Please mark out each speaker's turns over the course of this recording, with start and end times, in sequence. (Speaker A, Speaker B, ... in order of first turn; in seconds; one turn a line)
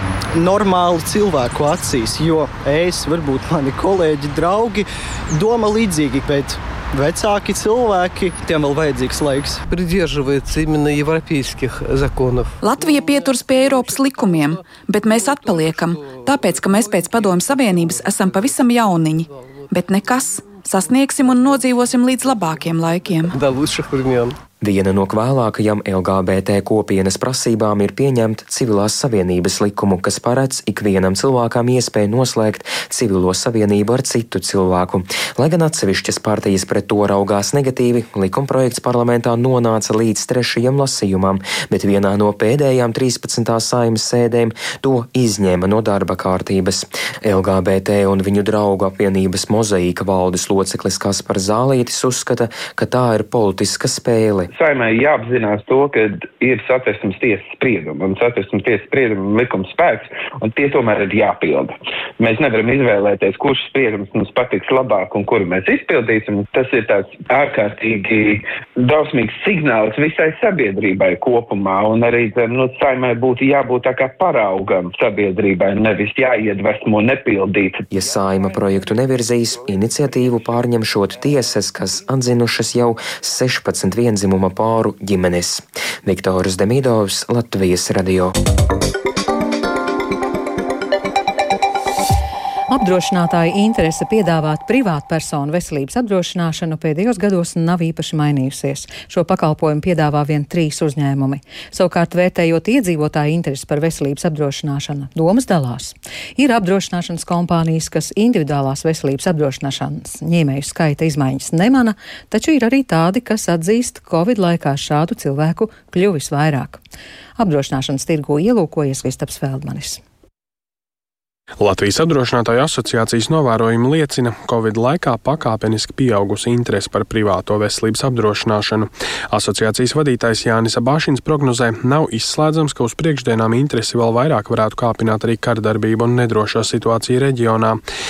Speaker A: 0.3-9.6
Speaker B: 9.7-19.7
Speaker C: 12.6-23.3
Speaker B: 20.4-24.4
Speaker D: 24.6-54.5
Speaker E: 54.5-77.8
Speaker D: 77.9-88.3
Speaker F: 92.7-116.8
Speaker F: 117.4-120.0
Speaker G: 121.6-137.8